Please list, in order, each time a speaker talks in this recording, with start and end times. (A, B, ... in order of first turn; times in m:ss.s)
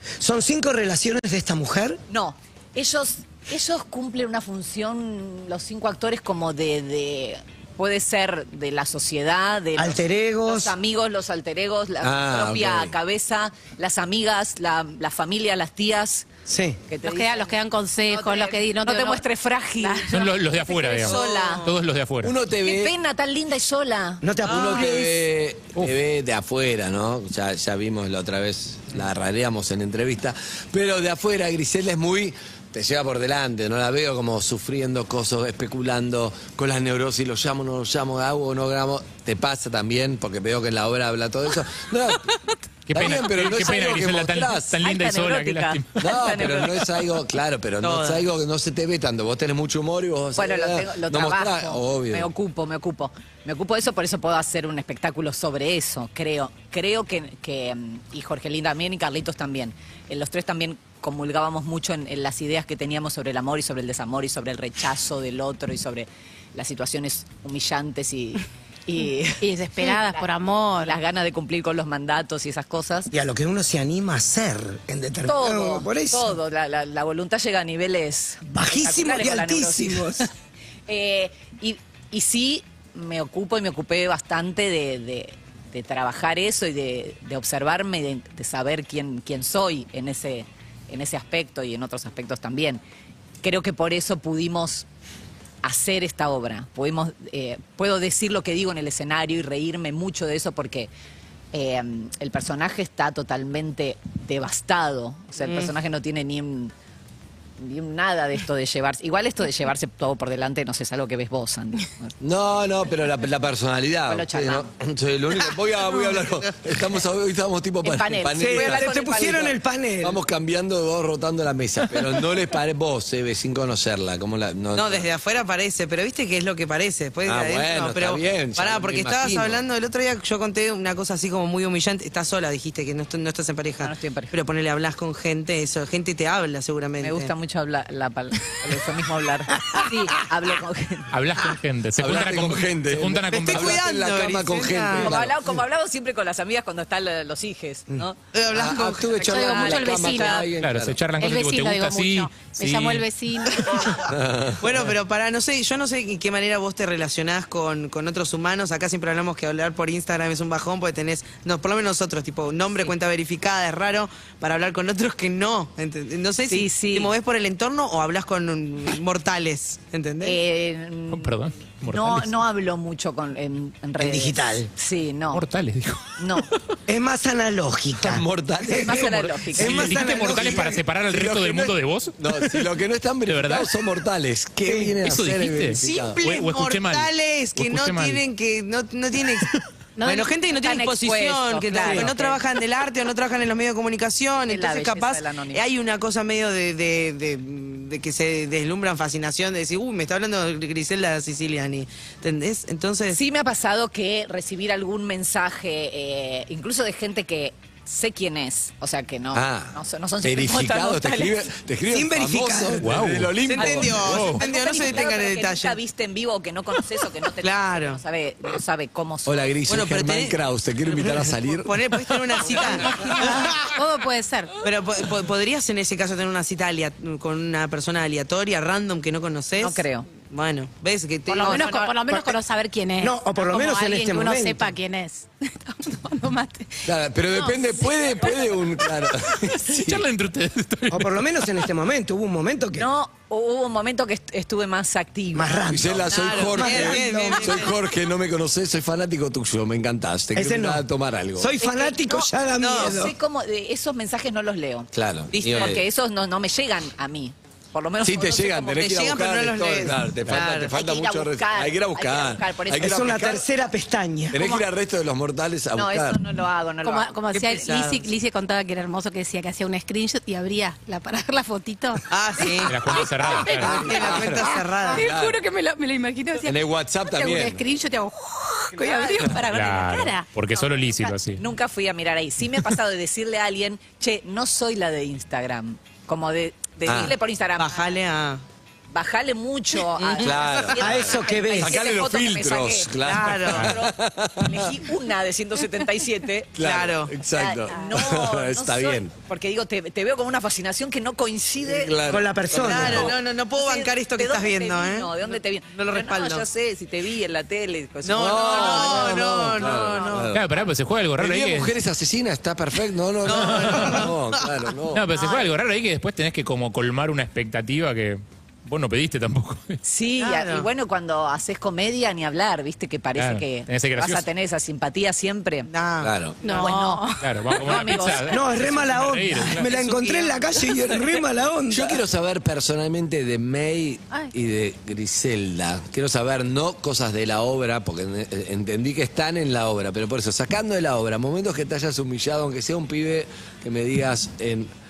0:00.2-0:02.0 A
0:02.1-0:16.3 B
0:09.8-0:10.7 A
0:12.0-0:12.9 C
0:16.5-0:16.8 A
0:16.9-0:17.5 B
0:17.0-0:19.2 D
0:18.1-0:21.7 B
0:19.8-0:20.2 D
0:20.1-0:22.3 E
0:21.0-0:21.7 F
0:22.2-0:22.9 C
0:22.6-0:24.6 B
0:24.2-0:25.0 A
0:24.4-0:25.0 F
0:24.4-0:42.3 C
0:42.9-0:46.3 E
0:42.9-0:44.8 C
0:44.8-0:46.9 B
0:46.0-0:52.3 C
0:47.8-0:48.2 F
0:50.4-1:10.2 B
1:09.4-1:11.0 D
1:10.8-1:13.1 B
1:13.1-1:16.3 A
1:15.2-1:20.3 B
1:18.4-1:20.3 A
1:20.9-1:32.8 B
1:33.4-1:34.8 B
1:35.6-1:40.9 B
1:41.5-1:46.7 B
1:45.4-1:45.7 F
1:47.6-1:52.1 B
1:52.2-1:58.9 C
1:54.1-1:54.7 B
1:55.8-1:56.5 F
1:57.8-1:59.6 B
1:58.4-2:00.2 A
2:00.0-2:05.1 C
2:04.7-2:17.3 F
2:07.2-2:09.6 C
2:13.8-2:14.3 B
2:17.0-2:21.1 B
2:21.1-2:23.8 E
2:22.0-2:25.5 C
2:23.3-2:25.1 F
2:25.0-2:28.2 B
2:28.3-2:29.3 F
2:28.5-2:31.0 C
2:29.1-2:30.4 B
2:29.2-2:30.5 D
2:30.6-2:33.1 E
2:31.2-2:34.0 D
2:33.6-2:34.0 F
2:34.0-2:34.9 C
2:34.6-2:50.4 F
2:46.5-2:47.1 B
2:50.2-2:51.3 B
2:51.1-2:52.4 E
2:51.8-2:55.4 B
2:54.0-2:54.7 A
2:55.3-2:56.2 E
2:56.2-2:56.5 B
2:56.9-3:00.8 A
2:58.0-3:06.2 C
2:58.7-3:00.1 B
2:59.0-3:02.7 E
3:03.3-3:03.7 E
3:04.6-3:04.9 A
3:05.0-3:08.2 E
3:05.8-3:23.2 F
3:10.0-3:10.9 D
3:10.6-3:12.4 B
3:14.5-3:15.6 B
3:23.1-3:31.5 B
3:29.3-3:34.3 C
3:31.9-3:32.9 A
3:32.8-3:34.4 E
3:33.4-3:35.8 F
3:33.6-3:39.5 B
3:37.4-3:38.0 F
3:39.2-3:42.8 C
3:39.7-3:40.3 F
3:40.9-3:43.7 F
3:42.8-3:44.6 D
3:44.6-3:52.3 F
3:49.6-3:50.1 B
3:51.3-3:58.5 D
3:51.4-3:51.7 B
3:53.0-3:54.7 A
3:56.8-4:00.0 C
3:59.3-4:01.5 E
4:00.9-4:02.9 A
4:02.8-4:05.9 B
4:05.3-4:07.6 A
4:05.7-4:11.5 C
4:06.1-4:07.7 F
4:10.3-4:10.8 A
4:11.4-4:13.1 A
4:11.6-4:14.9 B
4:12.6-4:13.0 F
4:14.9-4:15.8 C
4:15.3-4:15.8 F
4:15.4-4:19.0 B
4:18.0-4:23.4 C
4:18.8-4:20.7 F
4:20.6-4:23.4 B
4:22.8-4:24.4 A
4:24.3-4:26.2 C
4:25.7-4:27.1 B
4:26.8-4:40.3 D
4:27.3-4:28.1 F
4:32.1-4:35.1 F
4:32.6-4:33.9 E
4:33.8-4:35.4 C
4:36.4-4:37.6 C
4:38.7-4:39.2 B
4:39.3-4:41.4 E
4:40.6-4:47.9 B
4:46.8-4:47.2 C
4:47.6-4:48.4 F
4:48.9-4:56.5 B
4:50.0-4:50.7 F
4:50.2-4:51.0 C
4:50.8-4:51.8 A
4:51.6-4:54.8 C
4:53.0-4:53.7 F
4:56.5-4:59.1 C
4:56.6-4:57.1 F
4:57.3-5:02.0 B
5:01.6-5:03.1 C
5:02.1-5:03.1 A
5:02.5-5:06.4 F
5:02.6-5:10.3 B
5:08.0-5:10.3 F
5:08.2-5:10.5 C
5:10.3-5:11.7 E
5:11.2-5:15.0 C
5:13.2-5:14.4 F
5:13.4-5:14.0 E
5:14.9-5:19.8 E
5:19.8-5:25.7 B
5:20.2-5:20.7 F
5:23.2-5:24.2 E
5:25.7-5:26.1 F
5:26.0-5:26.4 C
5:26.4-5:27.3 D
5:26.4-5:28.4 B
5:27.2-5:29.7 E
5:28.3-5:32.0 A
5:29.6-5:31.0 F
5:31.7-5:44.7 C